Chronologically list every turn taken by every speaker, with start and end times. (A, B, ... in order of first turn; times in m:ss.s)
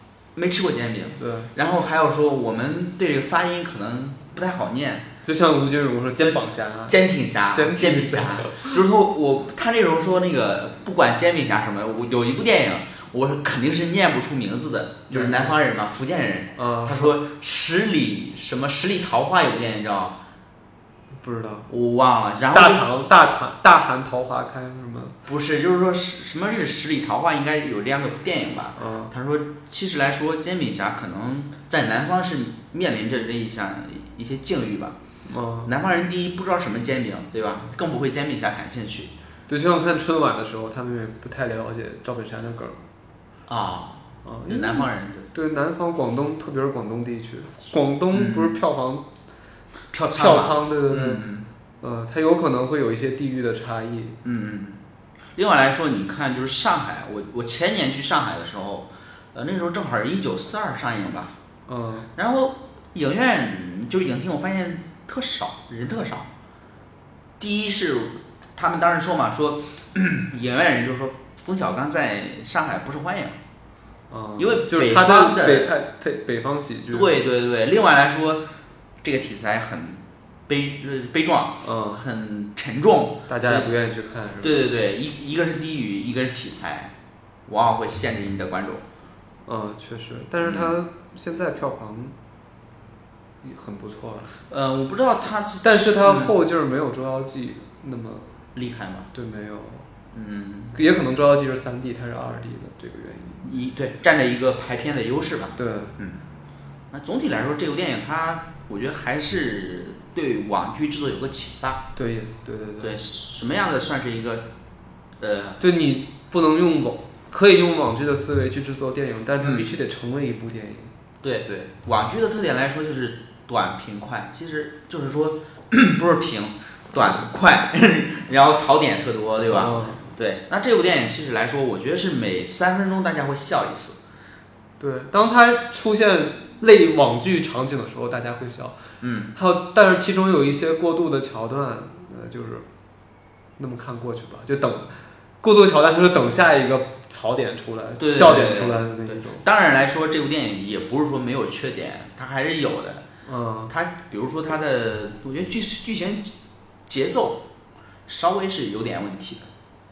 0:00.3-0:05.1 A
0:01.2-0:01.5 B
0:05.2-0:07.0 B
0:06.2-0:20.2 A
0:07.5-0:08.8 B
0:15.1-0:15.6 B
0:16.6-0:17.1 B
0:21.2-0:21.7 B
0:21.7-0:22.8 A
0:22.5-0:25.2 B
0:25.3-0:35.0 A
0:28.8-0:29.1 B
0:35.3-0:35.7 B
0:35.6-0:39.1 A
0:39.5-0:42.8 B
0:43.5-0:45.3 A
0:44.2-0:49.1 B
0:48.1-0:48.6 A
0:49.9-0:51.4 A
0:50.2-0:51.2 B
0:51.8-0:54.2 B
0:54.2-0:54.8 A
0:55.4-1:01.4 A
1:01.7-1:02.1 B
1:02.2-1:06.3 A
1:07.4-1:13.4 A
1:14.1-1:17.1 B
1:14.4-1:15.7 A
1:16.9-1:18.4 A
1:19.0-1:23.7 A
1:21.6-1:22.0 B
1:23.3-1:24.6 B
1:24.4-1:26.9 A
1:27.4-1:28.8 A
1:29.4-1:32.1 B
1:30.4-1:30.7 A
1:33.4-1:34.3 B
1:34.5-1:36.3 A
1:35.6-1:38.3 B
1:38.5-1:39.1 A
1:39.1-1:39.9 B
1:40.1-1:40.7 A
1:40.7-1:43.4 B
1:43.4-1:46.2 A
1:45.6-1:45.9 B
1:46.9-1:51.8 A
1:52.0-1:53.0 B
1:52.8-1:54.5 A
1:55.2-1:55.6 A
1:55.6-2:00.9 B
1:59.4-1:59.7 A
2:01.2-2:14.0 A
2:09.5-2:10.0 B
2:14.8-2:18.8 B
2:19.0-2:19.3 A
2:19.3-2:22.6 B
2:23.6-2:29.4 B
2:28.0-2:33.0 A
2:33.2-2:33.7 B
2:33.7-2:36.3 A
2:36.9-2:37.4 A
2:38.1-2:39.5 A